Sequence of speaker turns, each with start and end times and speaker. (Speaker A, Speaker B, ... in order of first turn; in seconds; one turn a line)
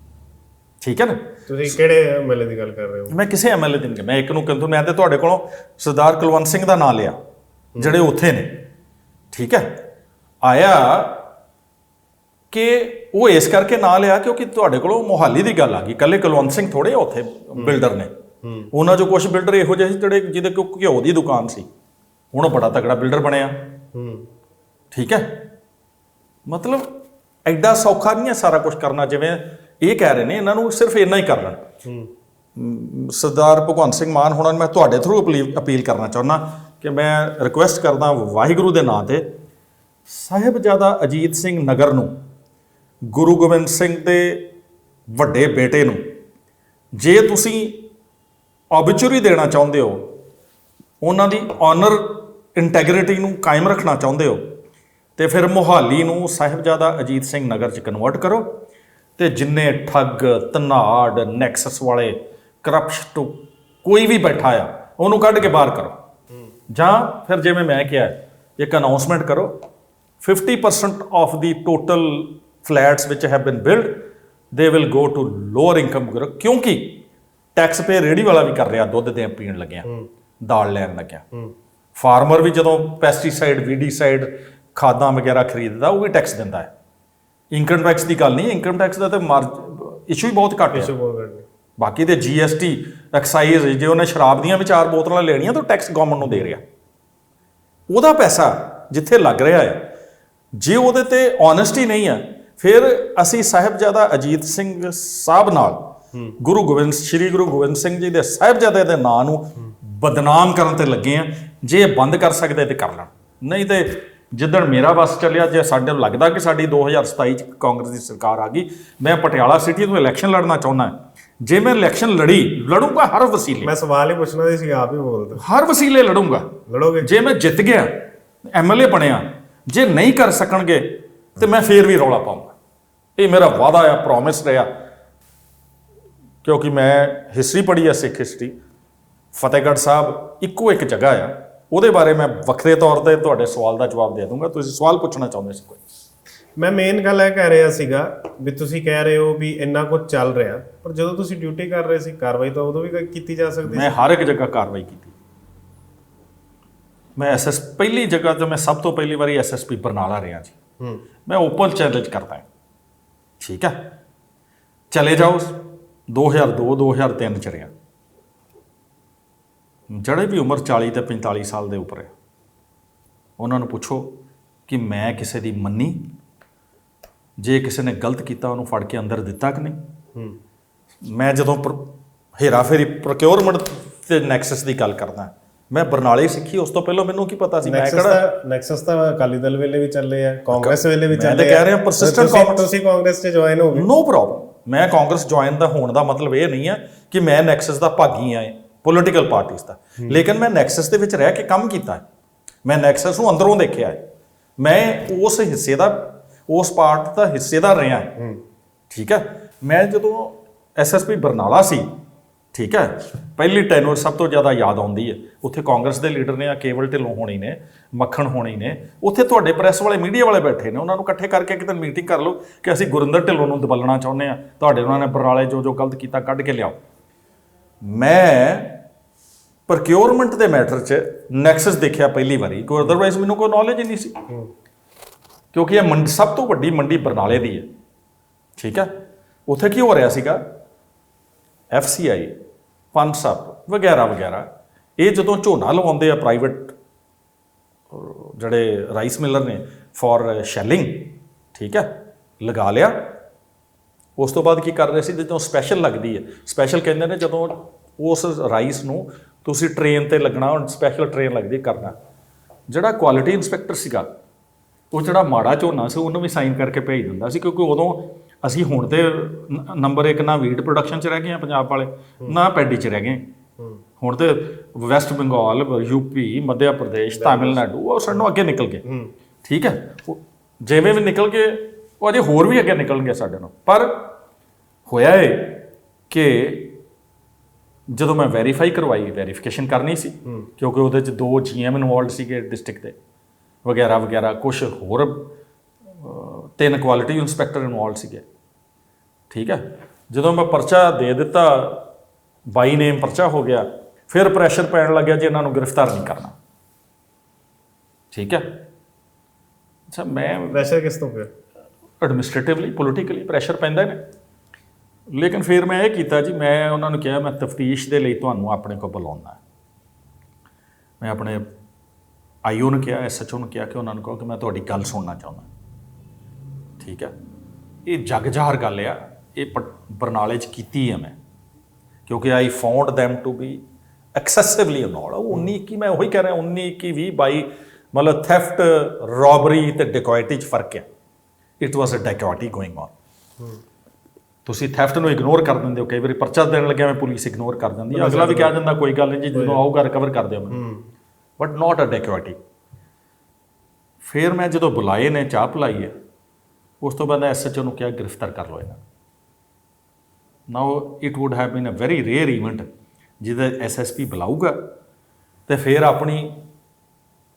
Speaker A: 0.8-1.7
Speaker B: 1.5-3.1
Speaker A: 3.1-7.2
Speaker A: 7.8-8.6
Speaker A: 9.3-9.8
Speaker A: 10.4-11.2
Speaker A: 12.5-18.1
Speaker B: 18.4-18.7
Speaker A: 18.7-21.7
Speaker A: 22.3-23.7
Speaker B: 23.9-24.3
Speaker A: 24.9-25.4
Speaker A: 26.5-26.9
Speaker A: 27.5-31.6
Speaker B: 31.9-32.1
Speaker A: 32.6-39.3
Speaker A: 40.1-42.1
Speaker A: 43.1-44.5
Speaker A: 45.1-46.0
Speaker A: 47.0-47.9
Speaker A: 48.7-50.1
Speaker A: 51.0-54.4
Speaker A: 55.2-58.6
Speaker A: 59.2-66.0
Speaker A: 66.7-69.5
Speaker A: 70.2-77.0
Speaker A: 77.6-79.9
Speaker A: 80.5-81.2
Speaker A: 82.0-86.7
Speaker A: 87.5-90.9
Speaker B: 90.7-91.5
Speaker A: 91.8-96.6
Speaker B: 96.2-96.5
Speaker A: 97.9-99.9
Speaker A: 100.6-123.7
Speaker B: 123.6-125.4
Speaker A: 125.4-132.5
Speaker B: 126.7-127.1
Speaker A: 133.2-134.7
Speaker A: 136.4-138.6
Speaker A: 139.3-145.8
Speaker B: 146.6-153.9
Speaker A: 153.7-155.2
Speaker A: 157.2-160.6
Speaker A: 161.3-162.5
Speaker A: 163.4-163.8
Speaker A: 164.9-167.7
Speaker A: 169.9-172.1
Speaker A: 173.4-174.1
Speaker A: 174.7-176.1
Speaker A: 177.4-179.8
Speaker A: 181.1-188.2
Speaker B: 187.6-193.9
Speaker A: 190.5-192.7
Speaker A: 193.7-202.0
Speaker A: 202.7-204.0
Speaker A: 204.6-208.2
Speaker A: 208.9-211.9
Speaker A: 212.5-226.8
Speaker A: 227.8-228.8
Speaker A: 229.7-234.2
Speaker A: 235.5-237.7
Speaker A: 238.6-238.9
Speaker A: 239.5-240.4
Speaker A: 241.7-242.4
Speaker A: 242.9-246.8
Speaker A: 247.9-253.2
Speaker A: 254.2-262.0
Speaker A: 262.7-264.1
Speaker A: 264.9-273.2
Speaker A: 274.0-278.9
Speaker B: 277.2-277.6
Speaker B: 278.8-279.1
Speaker A: 279.4-284.1
Speaker A: 284.9-286.8
Speaker A: 287.9-293.0
Speaker A: 293.6-295.3
Speaker A: 296.0-298.2
Speaker A: 299.3-301.9
Speaker A: 302.6-306.4
Speaker A: 308.1-308.6
Speaker A: 309.9-310.6
Speaker B: 310.3-311.3
Speaker A: 312.0-314.0
Speaker A: 315.1-319.4
Speaker A: 321.0-321.5
Speaker A: 322.4-325.5
Speaker A: 326.8-327.1
Speaker A: 327.9-331.2
Speaker A: 332.1-333.6
Speaker A: 334.2-340.9
Speaker A: 341.6-342.9
Speaker A: 344.5-350.6
Speaker B: 347.9-348.6
Speaker B: 349.3-349.6
Speaker B: 350.5-350.8
Speaker A: 351.4-352.4
Speaker A: 354.0-355.9
Speaker A: 356.8-358.8
Speaker A: 360.5-362.7
Speaker A: 363.2-364.7
Speaker A: 365.5-366.4